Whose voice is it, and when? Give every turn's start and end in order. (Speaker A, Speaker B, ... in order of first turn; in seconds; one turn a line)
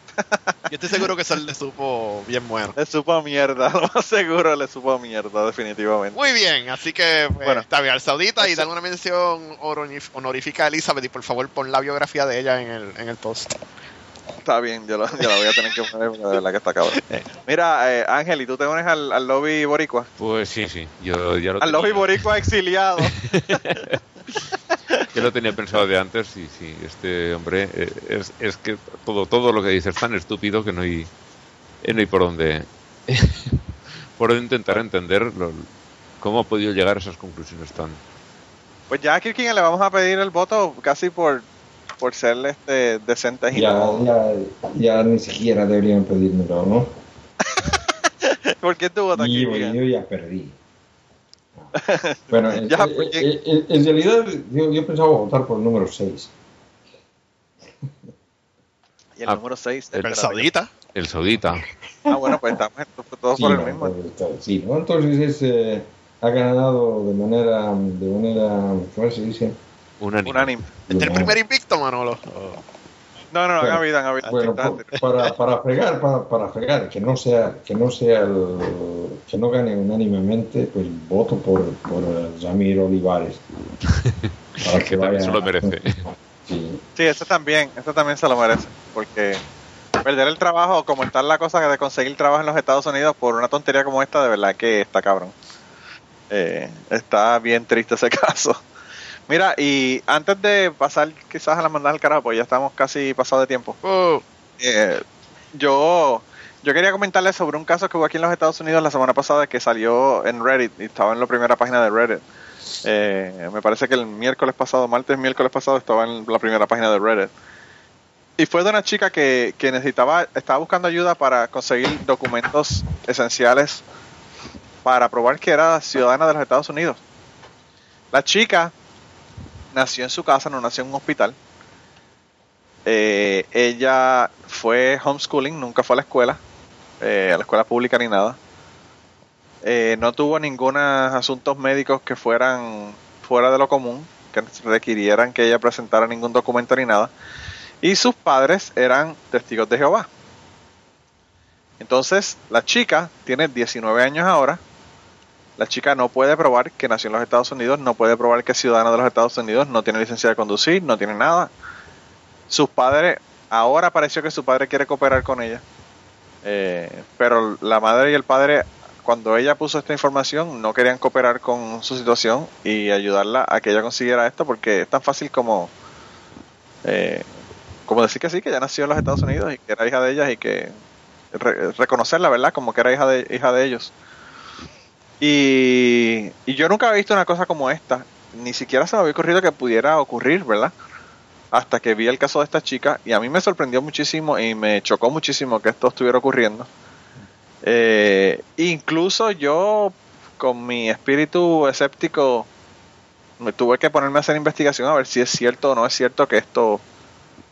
Speaker A: 0.2-1.0
Speaker B: 0.7-2.8
Speaker A: 2.8-6.2
Speaker B: 6.1-13.6
Speaker A: 8.4-8.7
Speaker A: 14.4-20.1
Speaker C: 20.2-22.5
Speaker A: 21.6-23.6
Speaker C: 23.2-24.0
Speaker C: 25.1-31.1
Speaker C: 31.8-33.6
Speaker C: 34.2-35.7
Speaker C: 36.2-38.0
Speaker A: 38.9-41.4
Speaker A: 42.0-44.0
Speaker D: 43.5-47.0
Speaker A: 47.6-49.7
Speaker D: 49.1-50.5
Speaker A: 51.8-53.2
Speaker D: 52.3-56.3
Speaker A: 59.2-60.5
Speaker B: 60.0-60.7
Speaker C: 60.9-61.7
Speaker A: 62.1-63.9
Speaker D: 63.4-69.6
Speaker C: 70.0-70.5
Speaker A: 70.2-70.7
Speaker D: 70.9-71.4
Speaker B: 70.9-72.6
Speaker A: 73.3-74.9
Speaker D: 73.6-83.4
Speaker C: 84.0-86.0
Speaker D: 84.6-85.8
Speaker D: 86.4-86.8
Speaker A: 87.0-89.4
Speaker A: 90.0-95.3
Speaker A: 96.3-98.6
Speaker A: 99.3-103.8
Speaker B: 103.8-104.2
Speaker A: 104.6-105.0
Speaker A: 105.5-112.2
Speaker A: 112.8-117.3
Speaker A: 118.4-123.8
Speaker A: 124.8-127.0
Speaker A: 128.1-128.7
Speaker A: 129.7-131.3
Speaker A: 132.8-136.4
Speaker A: 137.0-138.4
Speaker A: 139.6-147.1
Speaker A: 147.8-150.1
Speaker A: 151.8-154.6
Speaker A: 155.6-161.5
Speaker A: 162.5-165.6
Speaker A: 166.4-175.7
Speaker A: 176.8-177.2
Speaker A: 177.9-180.7
Speaker A: 181.3-183.9
Speaker A: 185.2-190.7
Speaker A: 191.5-196.7
Speaker A: 197.6-202.5
Speaker A: 203.4-206.8